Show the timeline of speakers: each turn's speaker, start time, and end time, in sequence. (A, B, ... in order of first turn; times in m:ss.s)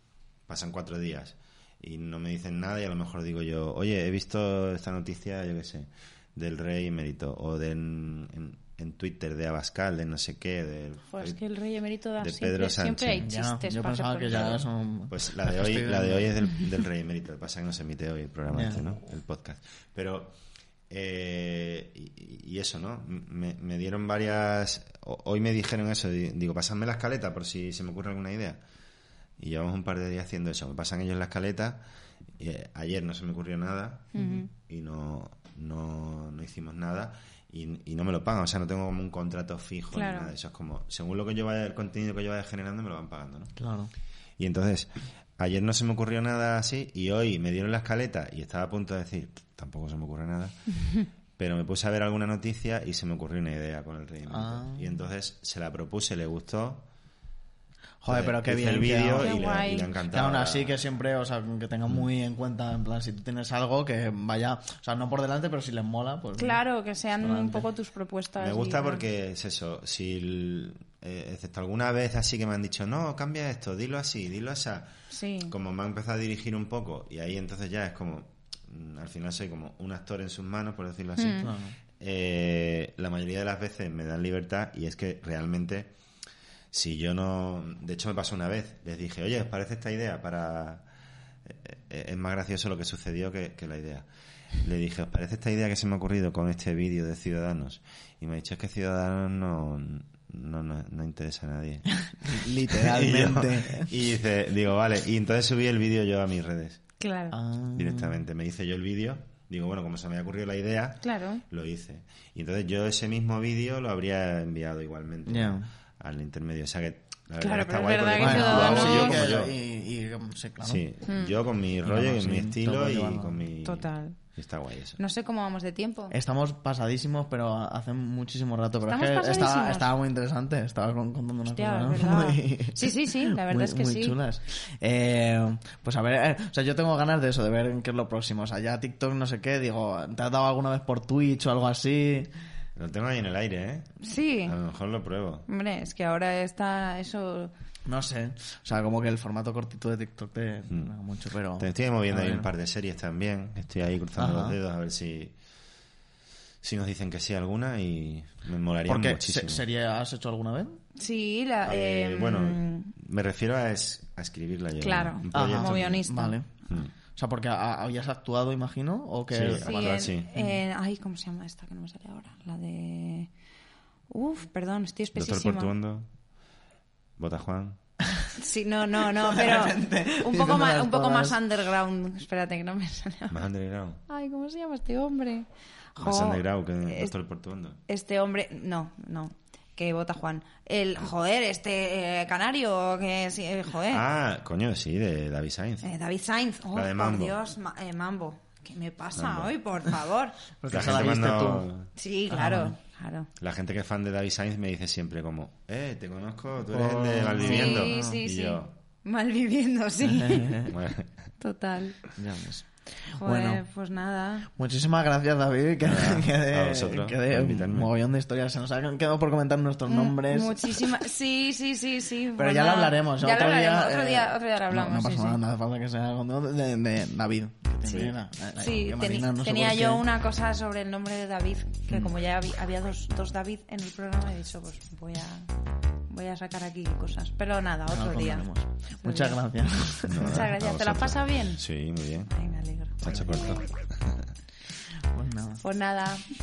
0:00.5-0:11.4 A
0:11.1-0:14.4 B
0:12.2-0:13.3 A
0:13.2-0:16.3 C
0:14.3-0:20.3 A
0:18.5-0:18.8 C
0:20.9-0:28.6 A
0:29.4-0:31.8 A
0:32.4-0:43.5 A
0:34.1-0:34.5 B
0:39.9-0:40.3 B
0:43.6-0:43.9 C
0:44.4-0:50.7 A
0:51.4-0:56.8 A
0:54.3-0:55.0 C
0:58.0-0:59.3 C
0:58.1-1:00.8 A
0:59.2-0:59.9 B
1:00.1-1:06.6 C
1:06.4-1:09.0 B
1:07.2-1:07.7 C
1:08.4-1:14.9 A
1:15.1-1:15.5 B
1:15.5-1:25.9 A
1:21.2-1:21.5 B
1:21.4-1:21.8 C
1:26.7-1:30.8 A
1:31.4-1:34.0 A
1:34.6-1:46.8 A
1:42.1-1:43.9 C
1:47.0-1:47.4 B
1:47.3-1:48.2 C
1:47.7-1:59.5 A
1:51.0-1:51.4 B
1:55.2-1:55.7 C
1:57.4-1:59.3 B
1:58.2-2:00.8 C
2:00.6-2:05.0 A
2:01.1-2:01.3 B
2:01.8-2:03.4 C
2:03.6-2:04.2 B
2:05.0-2:06.1 B
2:06.1-2:22.3 C
2:08.8-2:09.9 B
2:11.4-2:14.2 B
2:22.8-2:25.5 A
2:24.0-2:24.6 B
2:25.5-2:27.5 B
2:27.8-2:32.5 C
2:31.6-2:35.3 A
2:34.2-2:34.6 C
2:36.6-2:39.6 A
2:38.9-2:40.8 C
2:41.0-2:42.9 B
2:41.6-2:46.0 A
2:44.8-2:46.4 B
2:45.3-2:46.5 C
2:47.1-2:49.7 C
2:49.3-2:50.3 A
2:49.6-2:53.3 B
2:54.1-2:55.7 B
2:55.1-2:56.1 A
2:57.2-2:57.8 A
2:58.4-3:03.4 B
2:59.1-3:01.4 C
3:03.3-3:04.0 A
3:04.1-3:07.1 B
3:06.0-3:07.8 A
3:07.9-3:14.0 B
3:13.9-3:15.9 A
3:15.8-3:20.3 B
3:16.7-3:17.4 A
3:19.2-3:19.5 A
3:20.6-3:21.7 C
3:20.7-3:21.9 A
3:22.0-3:23.3 B
3:22.3-3:22.8 C
3:23.4-3:28.7 A
3:26.7-3:27.9 C
3:27.4-3:30.7 B
3:30.1-3:30.7 C
3:30.7-3:31.1 A
3:31.4-3:32.0 B
3:32.2-3:33.6 C
3:33.1-3:34.5 B
3:34.6-3:41.0 C
3:35.8-3:37.9 A
3:39.9-3:45.4 B
3:42.4-3:50.0 C
3:48.6-3:55.5 B
3:56.1-3:58.5 B
3:57.9-4:00.5 C
3:59.0-3:59.4 B
4:00.0-4:02.3 A
4:00.2-4:01.6 B
4:02.3-4:03.6 B
4:03.0-4:04.1 A
4:05.1-4:05.6 C
4:05.6-4:06.2 B